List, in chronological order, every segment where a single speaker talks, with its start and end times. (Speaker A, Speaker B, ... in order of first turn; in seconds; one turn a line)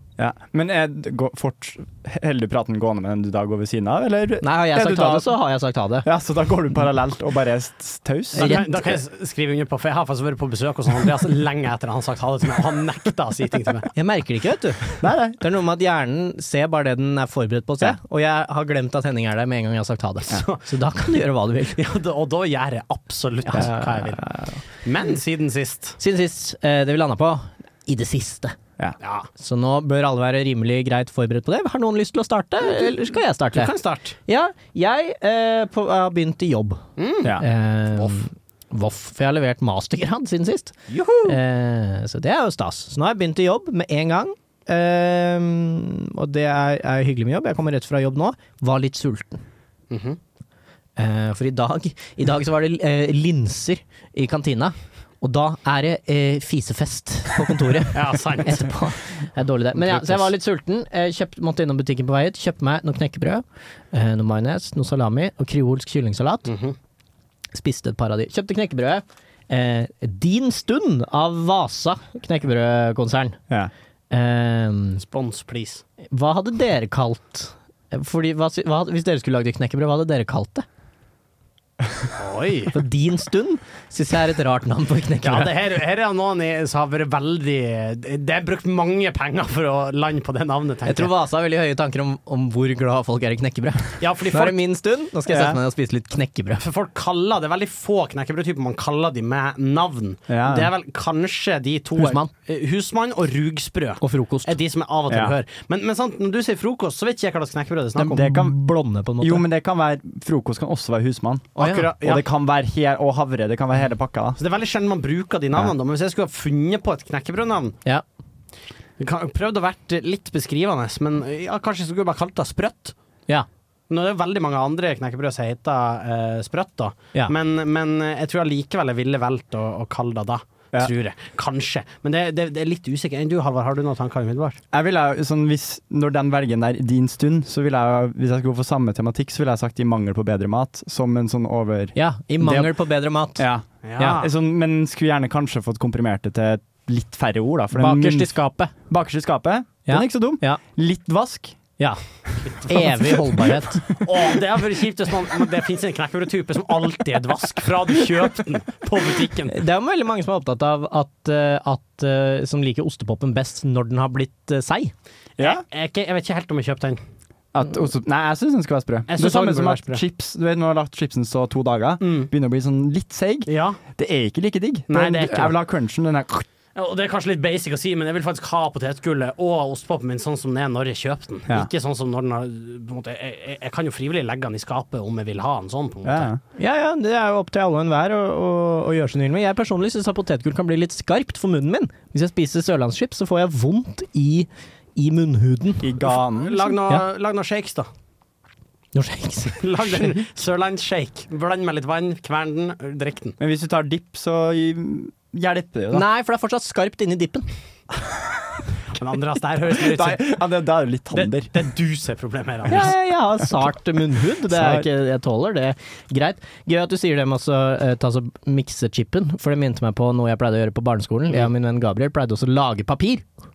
Speaker A: 0.2-5.4
Speaker B: 4.4-6.1
Speaker A: 6.0-8.6
Speaker C: 8.3-13.9
Speaker B: 8.4-8.8
Speaker B: 13.9-21.8
Speaker A: 15.0-15.4
Speaker C: 20.3-20.6
Speaker C: 21.7-24.3
Speaker B: 23.5-24.6
Speaker C: 24.8-26.0
Speaker B: 26.0-28.6
Speaker C: 29.0-29.3
Speaker B: 29.4-33.7
Speaker C: 32.6-34.1
Speaker B: 34.2-36.8
Speaker C: 37.0-37.4
Speaker B: 37.4-49.4
Speaker C: 37.9-38.2
Speaker C: 40.9-41.4
Speaker C: 49.9-50.2
Speaker B: 51.0-66.5
Speaker C: 57.9-58.8
Speaker C: 60.0-60.3
Speaker C: 66.5-66.7
Speaker B: 67.5-73.4
Speaker B: 74.1-75.0
Speaker C: 75.0-75.8
Speaker B: 76.1-80.6
Speaker C: 82.2-82.7
Speaker B: 82.7-85.5
Speaker C: 85.2-91.1
Speaker B: 90.8-96.6
Speaker C: 94.0-94.6
Speaker A: 95.3-95.6
Speaker C: 96.6-108.3
Speaker A: 100.3-100.7
Speaker B: 101.9-102.3
Speaker B: 104.0-104.5
Speaker A: 105.1-105.3
Speaker B: 108.0-109.5
Speaker A: 108.1-108.6
Speaker A: 109.2-114.4
Speaker B: 111.5-111.9
Speaker C: 111.6-112.2
Speaker C: 114.4-117.8
Speaker C: 119.0-122.9
Speaker C: 123.9-134.6
Speaker A: 134.7-142.7
Speaker B: 141.9-143.4
Speaker A: 143.4-148.3
Speaker C: 143.8-144.3
Speaker B: 147.7-148.7
Speaker A: 148.9-151.6
Speaker B: 149.9-150.6
Speaker C: 152.4-153.1
Speaker B: 152.5-153.8
Speaker C: 153.8-159.5
Speaker B: 159.5-164.9
Speaker C: 165.4-167.0
Speaker A: 167.5-176.4
Speaker C: 169.1-170.0
Speaker C: 172.0-172.3
Speaker C: 173.5-173.8
Speaker C: 174.9-175.6
Speaker C: 176.7-186.3
Speaker A: 186.0-186.4
Speaker B: 186.6-195.9
Speaker A: 195.8-196.7
Speaker C: 196.3-197.9
Speaker B: 198.9-200.1
Speaker C: 199.6-203.3
Speaker A: 203.4-206.0
Speaker B: 205.9-207.5
Speaker C: 208.9-210.3
Speaker A: 209.8-211.5
Speaker C: 211.1-212.9
Speaker B: 212.7-223.2
Speaker A: 214.5-214.9